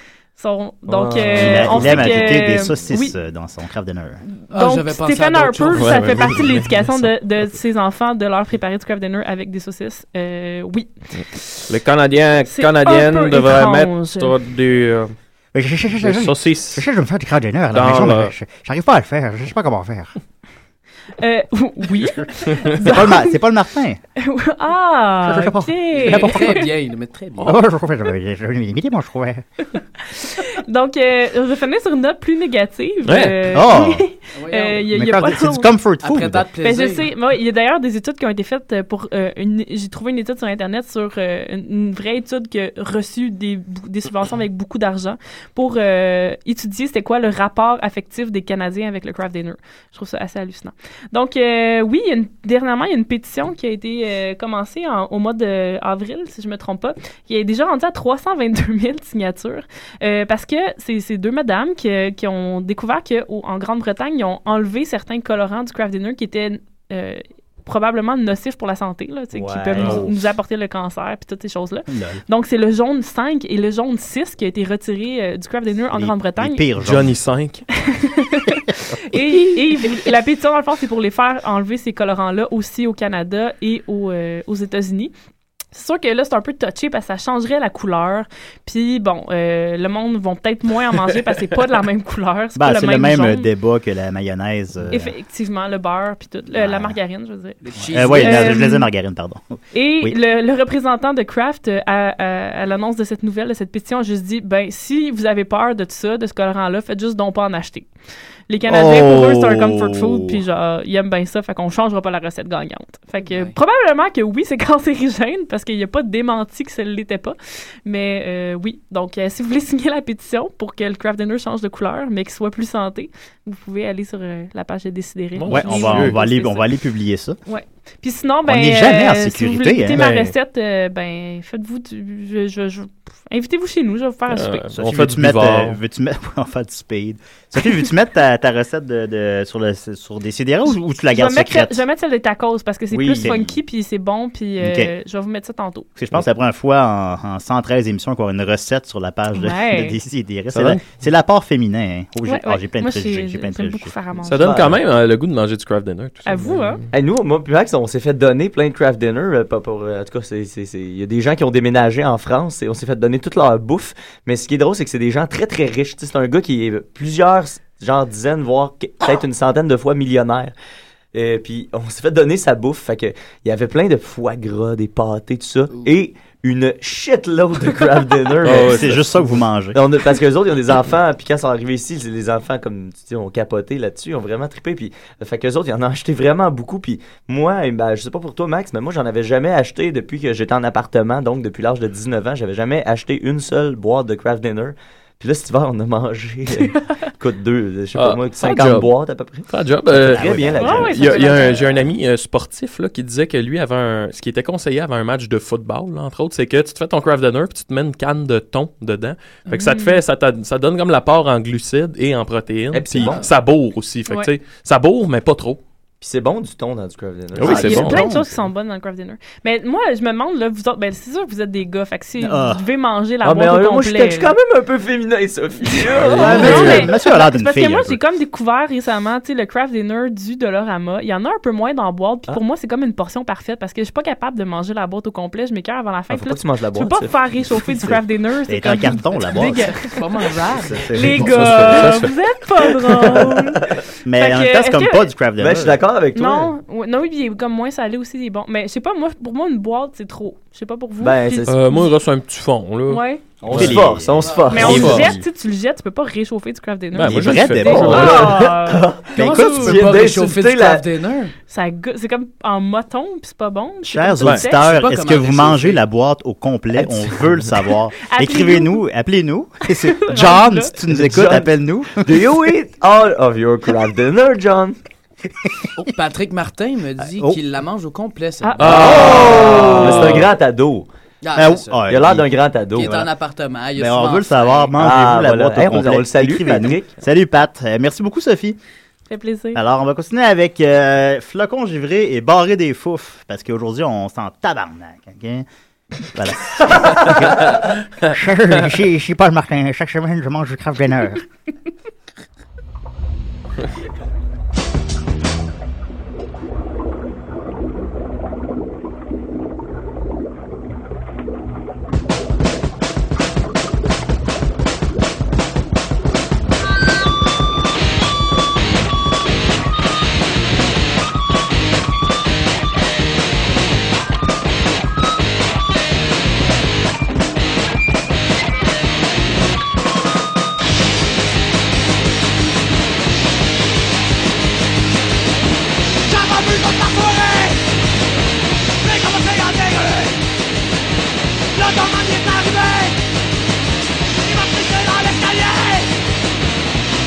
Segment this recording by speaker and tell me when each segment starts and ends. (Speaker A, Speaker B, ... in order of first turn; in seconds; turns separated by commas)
Speaker A: 0.3-3.1, Speaker B: 0.9-2.2, Speaker C: 1.4-4.2, Speaker A: 4.3-11.6, Speaker D: 4.5-6.2, Speaker E: 5.7-7.1, Speaker E: 11.7-15.1, Speaker A: 12.5-14.4, Speaker C: 15.5-20.2, Speaker E: 16.0-16.8, Speaker E: 17.7-18.3, Speaker A: 21.2-23.4, Speaker C: 22.6-24.0, Speaker A: 24.2-26.7, Speaker C: 25.2-26.5, Speaker D: 25.9-27.6, Speaker C: 27.4-29.4, Speaker A: 29.8-35.7, Speaker E: 33.0-33.4, Speaker C: 33.5-34.1, Speaker D: 34.3-34.9, Speaker C: 34.9-36.5, Speaker D: 36.0-37.1, Speaker A: 36.5-76.7, Speaker B: 69.3-70.1, Speaker E: 69.8-70.1, Speaker C: 71.9-72.2, Speaker C: 75.9-77.2, Speaker E: 76.8-77.6, Speaker A: 77.7-85.1, Speaker A: 85.7-93.5, Speaker C: 92.5-95.1, Speaker A: 94.9-97.6, Speaker C: 96.5-97.0, Speaker D: 97.6-98.6, Speaker C: 97.9-100.1, Speaker A: 98.1-98.9, Speaker A: 99.7-107.9, Speaker A: 108.5-126.7, Speaker C: 108.7-110.4, Speaker D: 113.2-113.5, Speaker E: 125.3-126.2, Speaker C: 125.5-127.4, Speaker A: 127.5-134.7, Speaker C: 128.4-130.1, Speaker E: 129.9-130.3, Speaker E: 134.3-135.8, Speaker C: 134.7-141.8, Speaker A: 141.1-145.9, Speaker B: 142.9-143.5, Speaker C: 143.1-143.5, Speaker C: 144.6-144.9, Speaker C: 146.0-153.9, Speaker A: 149.3-150.0, Speaker E: 150.5-150.8, Speaker A: 152.2-154.5, Speaker E: 154.2-156.9, Speaker B: 154.4-154.8, Speaker A: 156.2-156.8, Speaker B: 156.9-170.5, Speaker B: 171.1-179.1, Speaker E: 178.4-179.2, Speaker C: 178.5-179.8, Speaker B: 179.7-201.8, Speaker E: 197.9-198.9, Speaker E: 199.5-215.6, Speaker C: 199.9-201.0, Speaker A: 200.6-201.7, Speaker A: 209.5-210.0, Speaker B: 212.7-213.3, Speaker B: 216.0-218.0, Speaker E: 217.3-218.1, Speaker C: 217.4-218.3, Speaker A: 217.5-224.3, Speaker C: 222.2-222.6, Speaker B: 223.2-226.9, Speaker A: 225.7-239.9, Speaker E: 226.1-226.8, Speaker C: 226.2-228.0, Speaker B: 236.1-237.9, Speaker C: 238.5-239.7, Speaker D: 239.8-240.9, Speaker C: 240.6-241.7, Speaker A: 240.9-245.1, Speaker E: 241.1-242.1, Speaker C: 244.0-245.8, Speaker B: 245.4-246.5, Speaker A: 246.1-251.9, Speaker B: 251.0-251.6, Speaker E: 251.5-253.8, Speaker A: 252.9-253.2, Speaker B: 253.4-255.2, Speaker C: 253.4-254.9, Speaker D: 254.2-254.6, Speaker A: 254.5-259.6, Speaker E: 254.6-255.1, Speaker E: 256.9-258.3, Speaker C: 257.0-258.2, Speaker B: 257.8-260.8, Speaker C: 259.1-259.9, Speaker D: 259.2-261.3, Speaker A: 261.5-264.8, Speaker C: 263.8-272.0, Speaker D: 264.6-265.8, Speaker B: 266.8-267.1, Speaker A: 267.9-268.8, Speaker A: 269.8-270.7, Speaker B: 270.9-274.8, Speaker D: 275.8-279.7, Speaker C: 277.0-277.4, Speaker A: 278.4-278.9, Speaker E: 278.6-280.3, Speaker B: 278.6-280.9, Speaker D: 281.2-281.8, Speaker C: 281.3-282.3, Speaker B: 281.9-283.0, Speaker D: 282.7-284.7, Speaker C: 282.8-283.1, Speaker C: 283.8-288.6, Speaker B: 284.8-286.9, Speaker A: 289.1-289.6, Speaker C: 289.5-295.4, Speaker C: 296.0-301.2, Speaker F: 336.1-337.6, Speaker F: 338.8-340.2, Speaker F: 341.5-343.0, Speaker F: 344.2-345.9